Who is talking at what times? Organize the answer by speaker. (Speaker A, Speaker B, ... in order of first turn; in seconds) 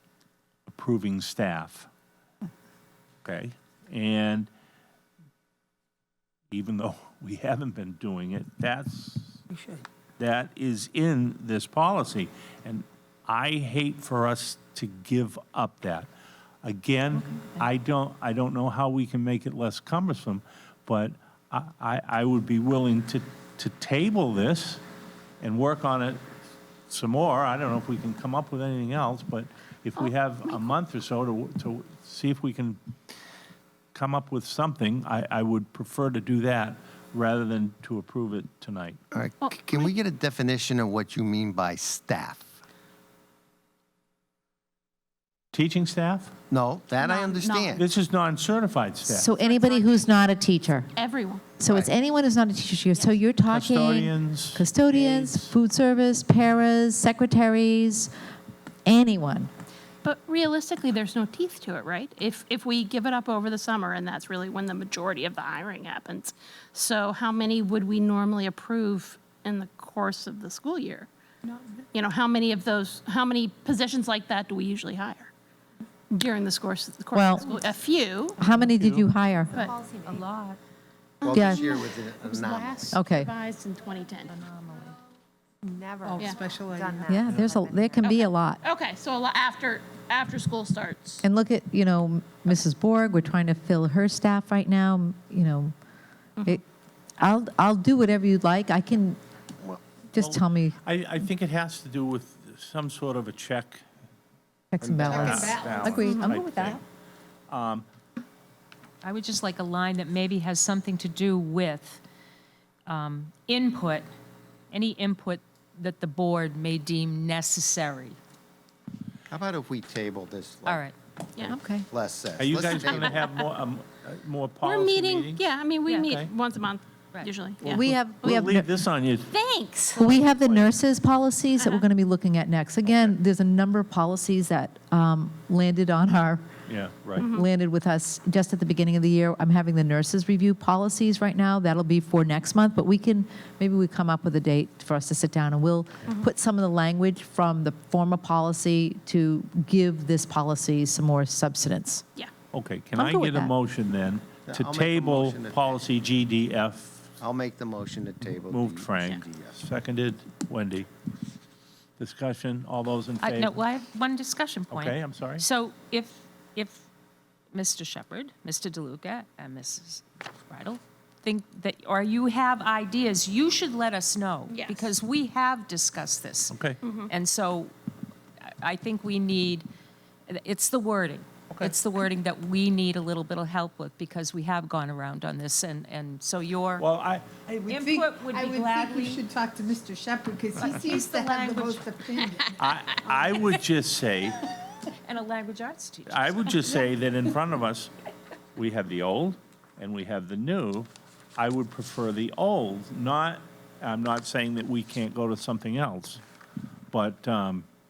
Speaker A: 0.7-1.9, 3.2-4.5, 6.5-9.4, 10.2-16.1, 16.6-24.8, 25.4-26.2, 26.9-32.8, 33.9-39.0, 45.5-46.3, 47.8-49.3, 53.5-55.5, 100.2-103.8, 105.1-106.8, 107.5-107.9, 122.4-126.3, 127.6-129.3, 130.1-130.7, 136.7-137.3, 152.5-157.1, 158.5-160.9, 162.0-163.6, 164.7-165.4, 176.5-176.8, 186.8-187.3, 192.6-194.5, 196.1-197.9, 198.6-206.2, 206.9-207.7
Speaker B: 30.0-30.7, 39.4-39.9, 47.0-47.8, 49.4-50.1, 51.0-51.4, 60.0-71.1, 71.9-75.3, 76.1-78.4, 81.3-84.4, 86.1-86.4, 88.0-91.2, 106.1-106.3, 122.9-123.5, 124.6-127.7, 129.3-130.1, 137.2-137.4, 174.5-174.9, 176.8-177.1
Speaker C: 39.1-42.5, 46.5-47.9, 81.2-83.1, 104.8-105.2, 119.3-120.8, 121.7-123.2, 154.5-155.8, 157.2-159.5
Speaker D: 49.1-50.9, 51.6-58.1, 58.9-59.5, 77.1-77.5, 78.4-79.6, 81.3-81.7, 82.9-83.3, 87.1-88.6, 91.2-95.7, 97.2-99.2, 100.1-100.8, 104.7-106.8, 121.5-121.9, 127.7-128.7, 129.9-136.5, 137.2-152.0, 153.0-153.5
Speaker E: 71.5-71.8, 86.0-87.2, 105.0-106.0, 187.5-193.4
Speaker F: 78.5-78.9, 79.6-80.6, 84.4-85.0, 109.0-112.0, 112.9-114.1, 114.7-118.2, 120.7-120.9, 163.2-166.8, 167.5-177.7, 178.5-179.7, 180.3-186.9, 187.7-189.2, 190.6-192.4, 194.9-196.6
Speaker G: 79.6-80.2, 85.7-88.1